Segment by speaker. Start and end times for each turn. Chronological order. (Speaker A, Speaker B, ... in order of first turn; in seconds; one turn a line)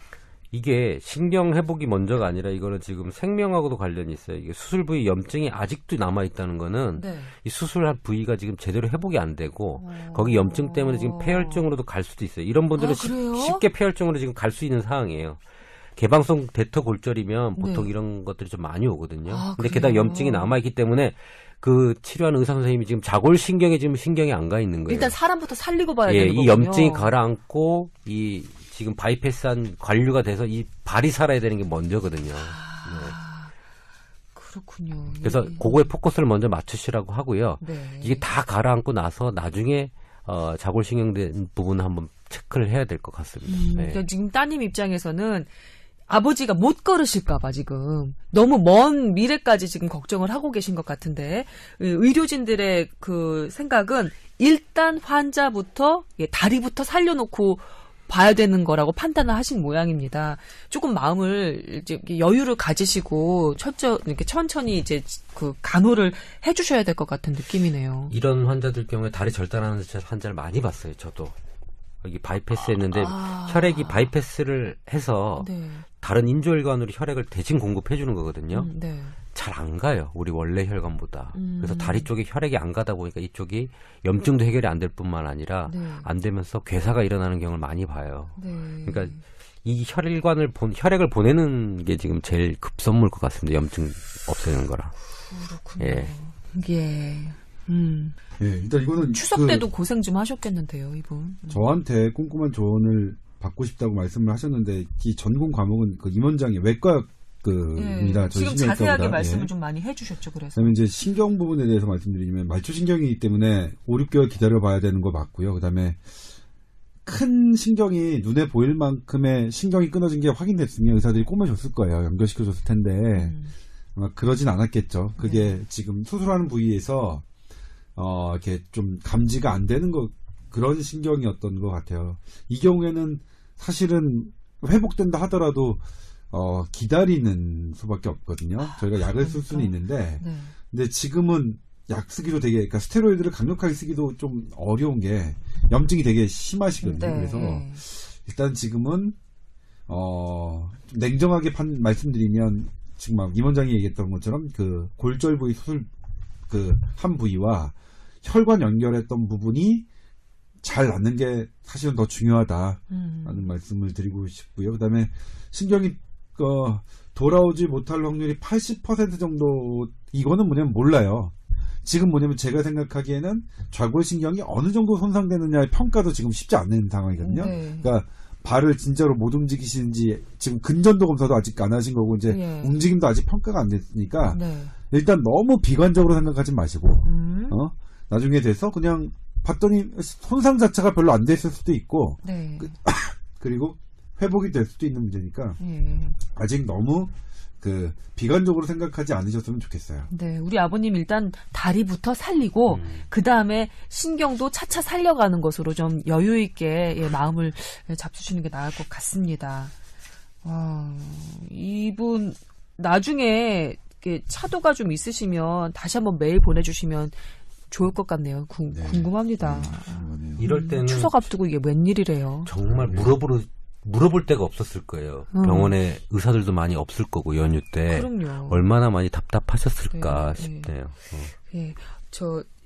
Speaker A: 0.5-15.4
Speaker B: 7.0-7.3
Speaker B: 9.8-11.7
Speaker B: 12.8-13.7
Speaker A: 16.0-25.2
Speaker B: 17.6-17.9
Speaker B: 19.3-20.6
Speaker B: 24.9-27.1
Speaker A: 26.1-33.2
Speaker B: 32.4-33.5
Speaker B: 34.4-35.9
Speaker A: 35.2-44.0
Speaker B: 37.6-38.3
Speaker B: 43.5-45.5
Speaker B: 46.1-68.1
Speaker A: 68.1-71.3
Speaker A: 72.0-78.7
Speaker B: 72.9-74.1
Speaker B: 75.4-75.9
Speaker B: 78.5-79.2
Speaker A: 79.3-95.0
Speaker B: 81.3-82.1
Speaker B: 85.7-86.1
Speaker B: 88.4-89.2
Speaker B: 95.3-98.2
Speaker A: 95.8-96.1
Speaker C: 98.4-99.7
Speaker B: 99.0-101.7
Speaker C: 101.5-109.5
Speaker B: 107.8-110.8
Speaker C: 110.5-116.0
Speaker C: 117.1-123.4
Speaker B: 123.1-123.5
Speaker C: 124.0-127.2
Speaker B: 125.2-125.6
Speaker C: 128.0-149.2
Speaker B: 138.6-140.6
Speaker B: 146.8-147.8
Speaker C: 149.9-155.9
Speaker C: 156.5-159.9
Speaker C: 160.6-195.6
Speaker B: 162.9-163.5
Speaker B: 177.2-177.9
Speaker B: 182.3-182.8
Speaker B: 184.3-184.7
Speaker B: 187.0-187.6
Speaker B: 192.2-192.7
Speaker B: 195.6-196.2
Speaker C: 196.3-200.1
Speaker B: 200.1-209.7
Speaker A: 202.7-203.0
Speaker B: 210.4-217.2
Speaker B: 217.7-222.5
Speaker C: 218.7-220.5
Speaker A: 220.4-221.3
Speaker A: 222.5-231.3
Speaker C: 222.7-223.2
Speaker B: 225.3-225.8
Speaker B: 227.9-228.7
Speaker B: 229.9-230.8
Speaker B: 231.4-232.5